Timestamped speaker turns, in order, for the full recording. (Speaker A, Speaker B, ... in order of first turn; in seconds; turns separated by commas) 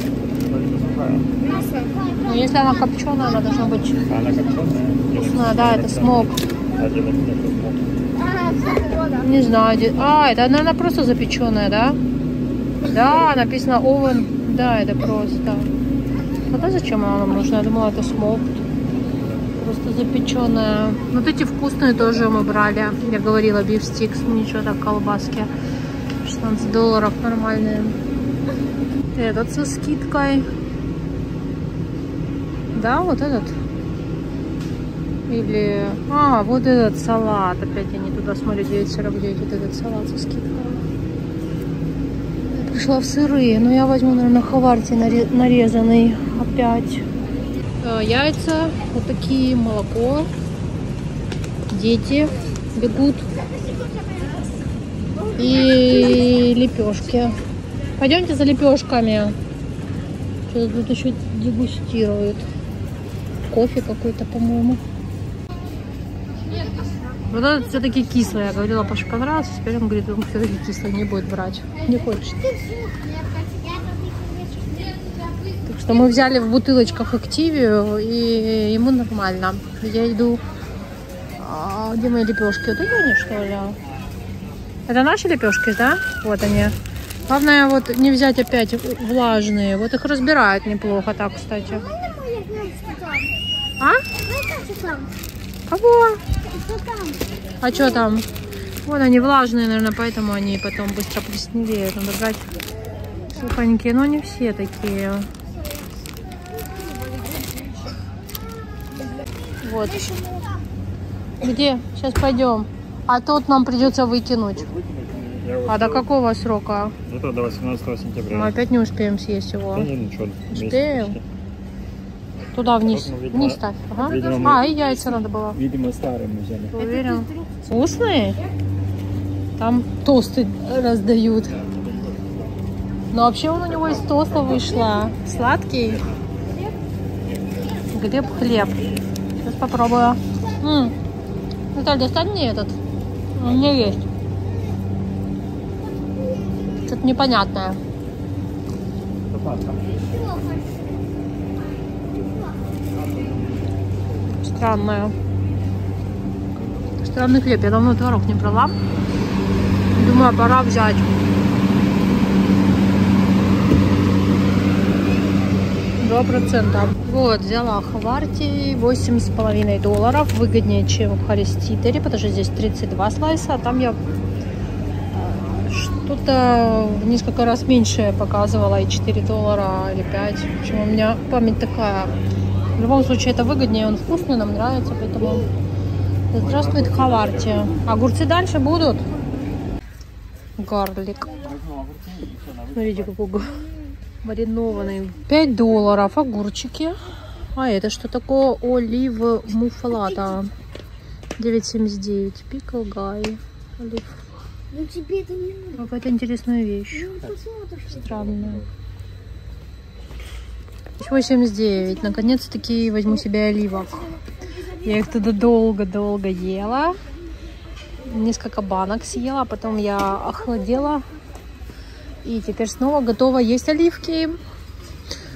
Speaker A: 0.4-1.3, Speaker B: 1.4-3.5, Speaker C: 2.2-4.1, Speaker A: 4.1-8.2, Speaker C: 5.1-6.4, Speaker D: 8.7-9.1, Speaker C: 9.2-12.0, Speaker C: 12.8-15.7, Speaker C: 16.5-18.6, Speaker C: 19.6-25.5, Speaker C: 26.2-28.0, Speaker C: 29.1-30.4, Speaker C: 32.7-33.6, Speaker C: 35.3-40.8, Speaker C: 42.5-47.1, Speaker C: 47.8-50.3, Speaker C: 51.7-53.3, Speaker B: 53.5-54.5, Speaker C: 55.4-57.4, Speaker C: 58.0-59.4, Speaker C: 60.5-62.5, Speaker C: 63.5-64.8, Speaker B: 66.5-66.9, Speaker C: 67.3-72.4, Speaker B: 71.8-75.3, Speaker C: 75.6-80.4, Speaker C: 81.4-83.8, Speaker C: 84.9-86.7, Speaker C: 87.3-91.8, Speaker B: 91.7-93.4, Speaker C: 93.8-94.0, Speaker B: 94.1-95.2, Speaker C: 95.7-96.2, Speaker B: 96.4-98.1, Speaker C: 97.6-98.3, Speaker C: 98.8-102.5, Speaker C: 103.3-105.3, Speaker B: 105.5-107.7, Speaker B: 109.1-110.7, Speaker C: 109.6-110.1, Speaker C: 111.4-114.8, Speaker A: 114.6-116.1, Speaker C: 115.7-117.0, Speaker A: 117.0-118.5, Speaker C: 118.3-119.9, Speaker A: 119.7-121.2, Speaker C: 120.5-121.2, Speaker C: 122.5-125.6, Speaker A: 122.7-124.8, Speaker D: 124.1-125.2, Speaker A: 125.5-126.7, Speaker D: 126.7-127.7, Speaker C: 126.7-128.4, Speaker C: 129.6-131.6, Speaker A: 131.6-132.1, Speaker C: 133.1-136.1, Speaker A: 134.1-134.6, Speaker C: 137.9-138.9, Speaker C: 139.4-140.9, Speaker C: 141.7-142.8, Speaker C: 143.3-144.1, Speaker B: 144.5-144.8, Speaker B: 145.8-146.9, Speaker C: 146.8-147.8, Speaker A: 149.3-149.8, Speaker B: 149.8-152.8, Speaker C: 154.3-155.1, Speaker C: 157.0-158.7, Speaker C: 159.9-161.2, Speaker C: 166.0-174.0, Speaker C: 175.1-182.1, Speaker C: 182.8-185.5, Speaker C: 186.3-189.0, Speaker A: 186.5-187.4, Speaker C: 190.6-191.4, Speaker A: 191.4-193.1, Speaker C: 192.7-193.6, Speaker C: 194.2-197.0, Speaker C: 197.5-200.5, Speaker C: 201.4-204.2, Speaker B: 204.7-205.9, Speaker C: 205.8-207.2, Speaker B: 206.9-208.1, Speaker C: 207.8-208.6, Speaker C: 211.0-214.1, Speaker C: 214.8-217.0, Speaker C: 218.0-221.0, Speaker C: 222.2-224.3